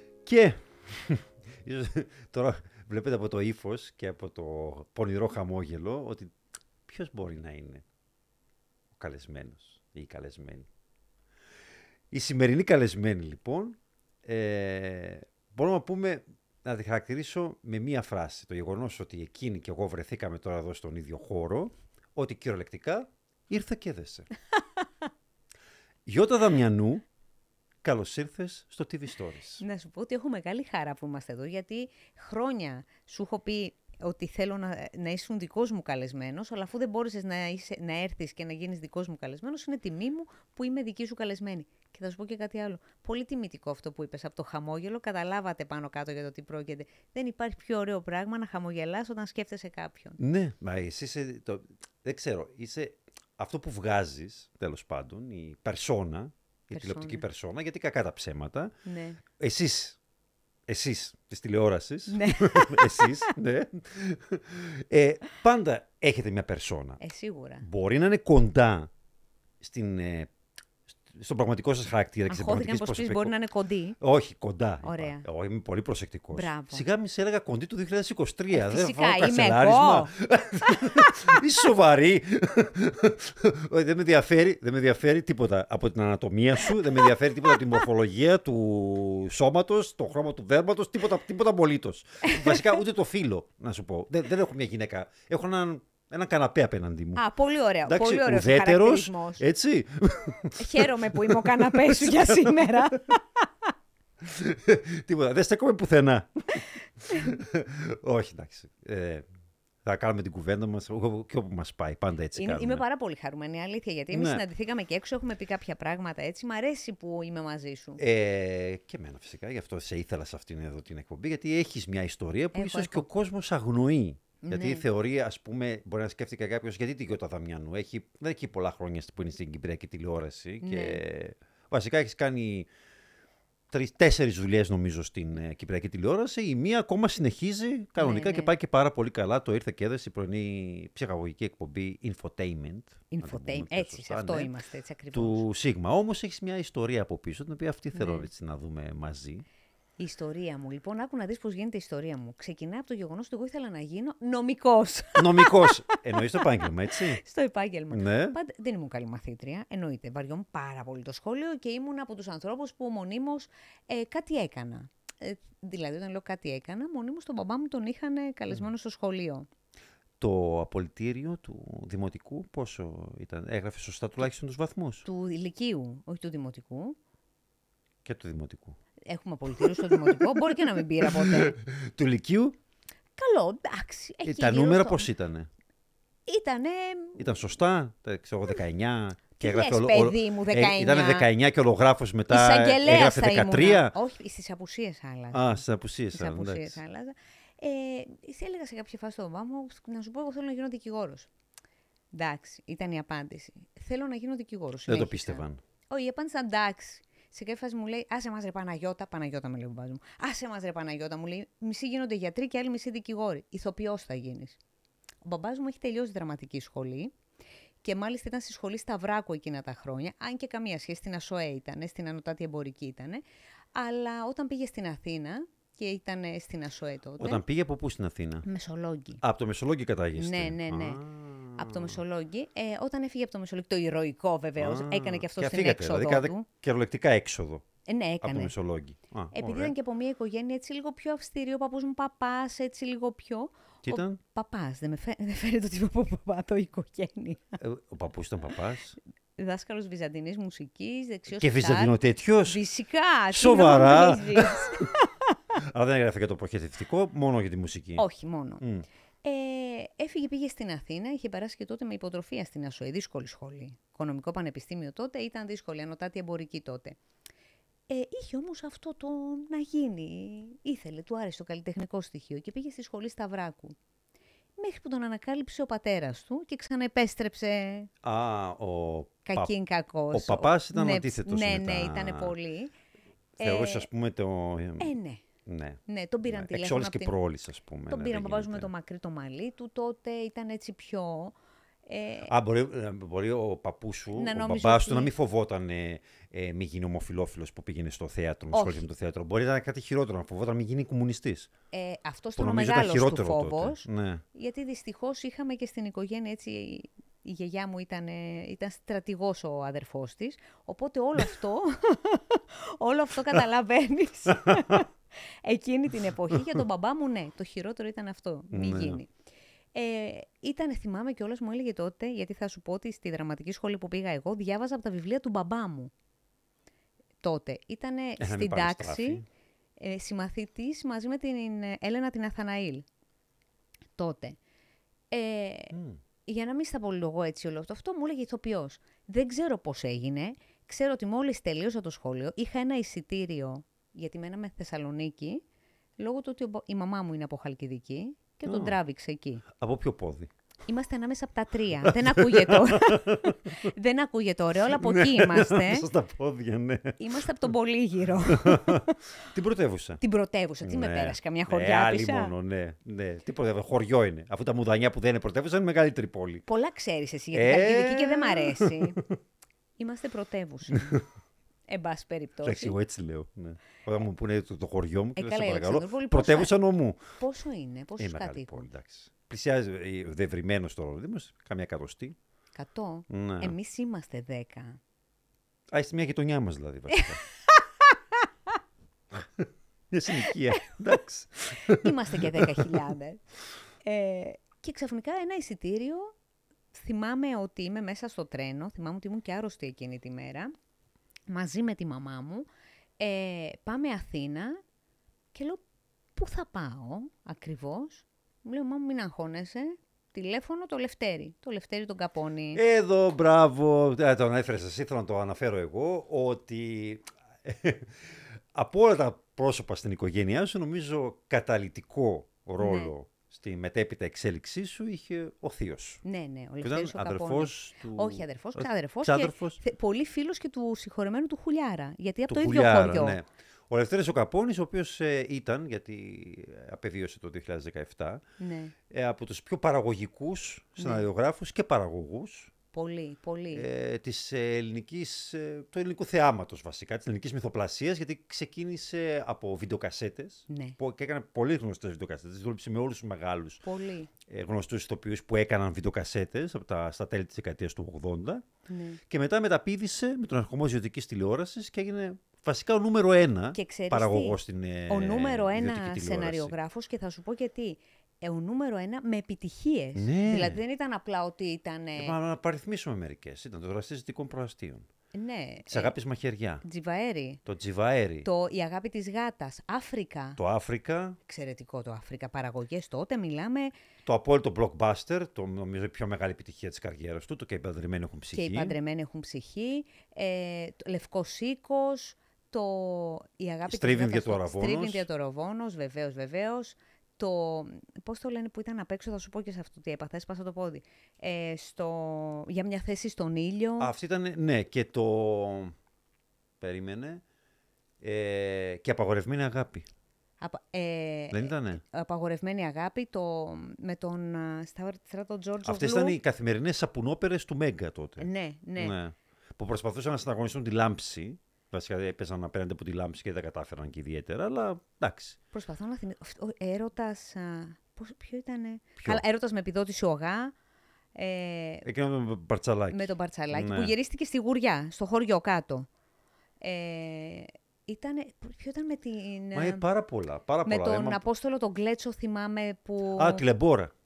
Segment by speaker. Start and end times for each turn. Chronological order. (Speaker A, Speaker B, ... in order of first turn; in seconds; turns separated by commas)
Speaker A: 0.2-7.8, Speaker A: 9.0-10.7, Speaker A: 12.1-24.3, Speaker A: 26.1-27.0, Speaker A: 27.8-29.6, Speaker B: 29.6-50.2, Speaker A: 50.2-58.7, Speaker B: 56.7-57.2, Speaker B: 58.8-59.2, Speaker A: 59.3-60.0, Speaker A: 60.7-67.0, Speaker B: 62.1-63.3, Speaker B: 67.0-67.6, Speaker A: 67.6-68.9, Speaker A: 69.6-70.3, Speaker A: 71.1-73.3, Speaker B: 72.3-74.0, Speaker A: 74.0-97.2, Speaker B: 74.8-75.2, Speaker B: 76.3-76.8, Speaker B: 78.5-81.2, Speaker B: 92.2-92.8, Speaker B: 97.2-99.4, Speaker A: 97.8-103.0, Speaker B: 100.6-103.5, Speaker A: 104.2-109.2, Speaker A: 109.8-112.8, Speaker B: 112.3-118.0, Speaker A: 114.1-114.4, Speaker A: 118.0-132.7, Speaker B: 122.5-123.1, Speaker B: 124.4-124.8, Speaker B: 130.6-131.0, Speaker A: 133.7-144.5, Speaker B: 138.0-138.5, Speaker B: 143.1-145.4, Speaker A: 145.1-149.4, Speaker B: 147.9-148.3, Speaker B: 150.0-169.5, Speaker A: 155.2-157.2, Speaker A: 157.9-158.4, Speaker A: 170.2-175.0, Speaker B: 175.0-177.0, Speaker A: 178.0-178.8, Speaker B: 179.1-181.5, Speaker A: 179.6-182.6, Speaker B: 183.2-185.1, Speaker A: 184.2-185.5, Speaker B: 186.3-187.4, Speaker A: 187.2-193.9, Speaker B: 189.4-191.3, Speaker B: 192.3-201.3, Speaker A: 195.3-196.8, Speaker B: 202.1-214.6, Speaker A: 204.9-205.6, Speaker B: 215.2-217.1, Speaker B: 217.8-223.2, Speaker B: 223.7-227.4, Speaker A: 227.2-228.4, Speaker B: 228.4-229.2, Speaker A: 229.2-232.0, Speaker B: 230.2-231.0, Speaker B: 231.5-236.5, Speaker A: 234.6-237.6, Speaker B: 237.9-238.5, Speaker A: 238.2-239.7, Speaker B: 239.3-247.6, Speaker A: 243.8-244.2, Speaker A: 247.6-249.0, Speaker B: 249.4-251.9, Speaker A: 251.4-252.6, Speaker B: 252.5-255.3, Speaker A: 253.3-254.9, Speaker A: 255.6-258.0, Speaker B: 258.0-258.6, Speaker A: 258.6-258.9, Speaker B: 259.2-267.0, Speaker B: 267.9-273.8, Speaker B: 274.6-277.9, Speaker A: 278.0-279.5, Speaker B: 279.2-282.7, Speaker A: 280.1-282.3, Speaker B: 283.4-283.9, Speaker A: 283.4-284.9, Speaker B: 284.8-285.2, Speaker A: 285.4-288.7, Speaker B: 285.9-287.1, Speaker B: 287.9-291.3, Speaker B: 291.9-292.3, Speaker A: 292.3-301.5, Speaker B: 294.1-295.1, Speaker B: 298.5-298.9, Speaker B: 301.7-319.1, Speaker A: 302.4-304.2, Speaker A: 314.3-314.8, Speaker A: 316.3-316.6, Speaker A: 318.5-319.0, Speaker B: 319.7-325.9, Speaker B: 327.2-329.2, Speaker A: 328.2-329.2, Speaker B: 329.8-332.8, Speaker B: 334.0-334.4, Speaker B: 335.1-335.7, Speaker A: 335.7-336.0, Speaker B: 336.2-345.4, Speaker B: 346.0-349.4, Speaker A: 348.4-348.8, Speaker A: 349.5-350.3, Speaker B: 350.7-355.9, Speaker A: 351.8-353.7, Speaker A: 354.7-357.0, Speaker B: 357.0-359.2, Speaker A: 358.2-360.0, Speaker B: 360.0-362.3, Speaker A: 360.6-366.4, Speaker B: 366.4-369.0, Speaker A: 367.3-369.2, Speaker B: 369.8-371.0, Speaker A: 370.7-371.0, Speaker B: 371.7-372.8, Speaker A: 372.4-377.0, Speaker B: 375.1-376.5, Speaker B: 377.2-378.7, Speaker A: 378.0-382.2, Speaker B: 382.6-384.8, Speaker A: 383.1-383.6, Speaker A: 385.7-387.2, Speaker B: 386.9-388.5, Speaker A: 389.1-392.9, Speaker B: 390.2-390.9, Speaker B: 391.6-393.2, Speaker B: 393.8-396.1, Speaker B: 396.7-400.5, Speaker B: 401.3-402.5, Speaker B: 403.0-404.6, Speaker B: 405.3-405.6, Speaker B: 406.1-412.6, Speaker A: 412.5-426.0, Speaker B: 422.6-422.9, Speaker B: 426.0-433.2, Speaker A: 426.6-429.6, Speaker A: 432.3-438.2, Speaker B: 438.4-438.7, Speaker A: 438.9-442.5, Speaker B: 440.8-441.1, Speaker B: 442.7-443.7, Speaker A: 443.5-453.6, Speaker B: 450.5-450.8, Speaker B: 453.6-454.1, Speaker A: 454.2-458.4, Speaker B: 458.7-459.0, Speaker A: 459.1-466.5, Speaker B: 463.5-464.4, Speaker B: 464.9-472.1, Speaker A: 469.9-470.6, Speaker A: 472.0-474.9, Speaker B: 475.1-475.9, Speaker A: 475.7-476.6, Speaker B: 476.6-477.4, Speaker A: 477.4-478.3, Speaker B: 478.2-480.4, Speaker A: 480.4-481.2, Speaker B: 481.2-483.7, Speaker A: 484.0-488.8, Speaker B: 488.3-503.9, Speaker A: 493.7-495.1, Speaker A: 503.8-505.8, Speaker A: 506.6-507.2, Speaker A: 508.0-509.9, Speaker B: 510.4-516.2, Speaker A: 511.3-511.8, Speaker A: 515.6-525.4, Speaker B: 518.2-519.0, Speaker B: 525.5-530.5, Speaker B: 531.1-531.9, Speaker A: 531.8-533.9, Speaker B: 532.9-535.9, Speaker B: 536.6-539.8, Speaker A: 539.5-541.2, Speaker B: 540.6-543.5, Speaker A: 543.1-543.9